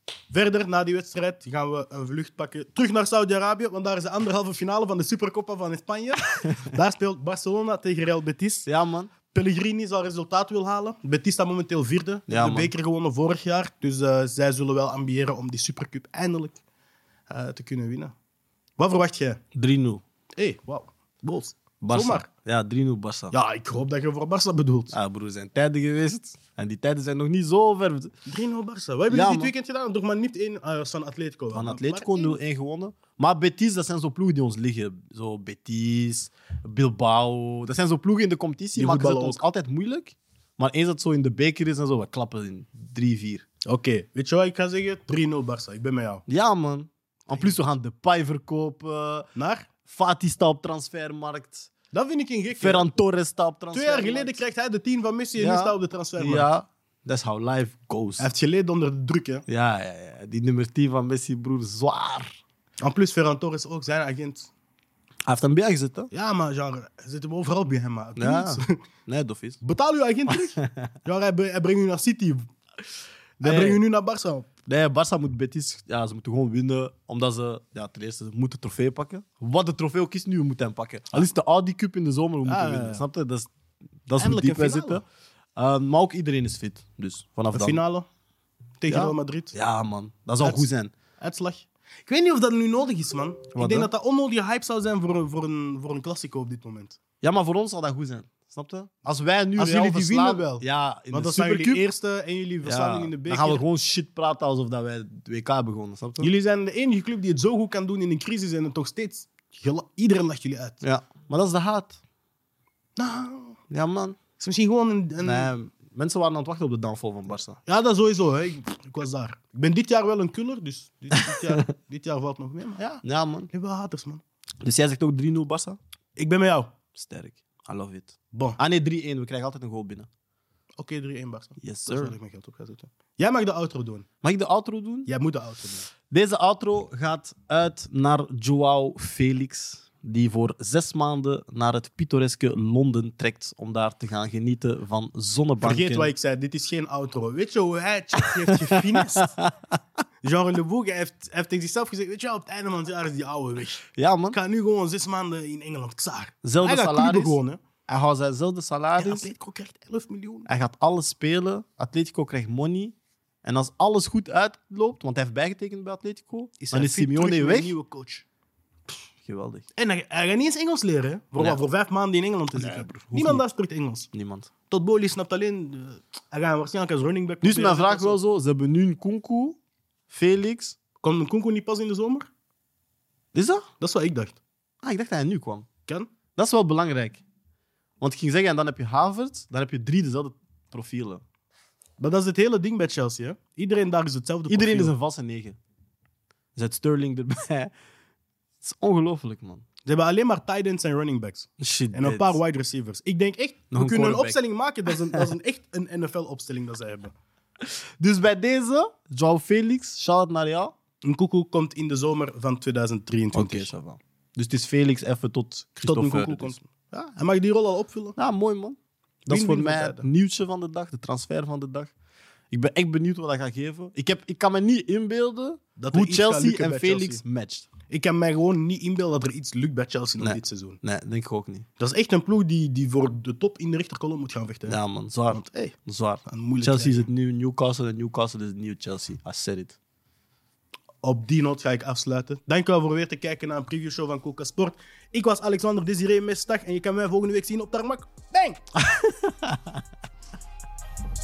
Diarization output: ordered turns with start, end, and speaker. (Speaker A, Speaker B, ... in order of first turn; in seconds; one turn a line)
Speaker A: 0.3-8.7
Speaker B: 8.7-9.1
Speaker A: 9.3-16.6
Speaker B: 12.3-12.7
Speaker A: 17.3-18.1
Speaker A: 18.8-19.4
Speaker B: 19.6-20.0
Speaker A: 20.4-22.3
Speaker B: 21.8-23.4
Speaker A: 23.3-24.9
Speaker B: 24.9-28.1
Speaker A: 28.3-32.4
Speaker B: 29.1-29.5
Speaker B: 31.5-43.5
Speaker A: 38.8-39.4
Speaker A: 43.7-46.2
Speaker B: 46.3-49.3
Speaker A: 47.3-47.6
Speaker A: 49.4-49.7
Speaker B: 49.9-51.7
Speaker A: 51.9-52.9
Speaker B: 52.6-54.4
Speaker A: 53.7-56.5
Speaker B: 55.4-58.3
Speaker A: 58.2-59.5
Speaker B: 59.5-62.4
Speaker A: 62.8-64.5
Speaker B: 65.3-66.1
Speaker A: 66.1-68.8
Speaker B: 68.2-69.6
Speaker A: 69.6-72.5
Speaker B: 70.3-70.8
Speaker A: 73.4-74.5
Speaker B: 73.4-73.8
Speaker B: 74.7-83.5
Speaker A: 82.5-83.0
Speaker B: 84.1-85.0
Speaker A: 84.2-85.0
Speaker B: 85.6-87.8
Speaker A: 87.5-88.1
Speaker A: 88.8-89.5
Speaker B: 88.9-90.9
Speaker A: 90.4-97.0
Speaker B: 93.5-93.9
Speaker B: 97.2-101.8
Speaker A: 99.6-103.6
Speaker B: 102.6-106.3
Speaker A: 106.2-110.8
Speaker B: 110.8-112.0
Speaker A: 113.0-113.6
Speaker B: 113.7-114.2
Speaker A: 114.4-115.5
Speaker B: 115.2-117.6
Speaker A: 117.7-124.2
Speaker B: 123.0-123.5
Speaker B: 124.6-125.8
Speaker A: 126.2-126.7
Speaker B: 126.9-130.1
Speaker A: 128.3-128.6
Speaker A: 130.8-134.1
Speaker B: 131.6-132.2
Speaker B: 134.2-135.1
Speaker A: 135.1-135.9
Speaker B: 136.1-146.1
Speaker A: 145.6-149.3
Speaker B: 148.7-149.5
Speaker A: 150.2-157.6
Speaker B: 154.0-154.4
Speaker B: 156.4-157.4
Speaker B: 157.9-159.3
Speaker A: 159.0-160.5
Speaker B: 160.5-167.7
Speaker A: 166.6-168.3
Speaker B: 169.2-169.6
Speaker A: 169.8-174.1
Speaker B: 172.6-173.4
Speaker B: 174.1-174.5
Speaker A: 174.7-178.2
Speaker B: 177.4-179.6
Speaker B: 180.1-180.8
Speaker A: 181.0-182.3
Speaker B: 183.3-183.7
Speaker A: 183.8-184.4
Speaker B: 184.8-185.7
Speaker B: 186.4-187.2
Speaker B: 188.0-191.2
Speaker A: 192.0-194.9
Speaker B: 194.5-195.6
Speaker B: 196.6-197.7
Speaker B: 198.6-199.6
Speaker A: 199.9-207.1
Speaker B: 201.6-202.4
Speaker B: 203.7-204.4
Speaker B: 207.6-210.7
Speaker A: 211.0-213.7
Speaker B: 213.3-216.6
Speaker A: 215.8-218.2
Speaker B: 218.2-221.9
Speaker A: 219.3-220.1
Speaker B: 222.5-227.7
Speaker A: 225.8-227.2
Speaker A: 227.9-230.8
Speaker B: 230.2-231.7
Speaker A: 231.8-234.8
Speaker B: 234.7-239.8
Speaker A: 235.3-235.7
Speaker A: 236.3-237.1
Speaker A: 241.0-248.6
Speaker B: 248.9-249.8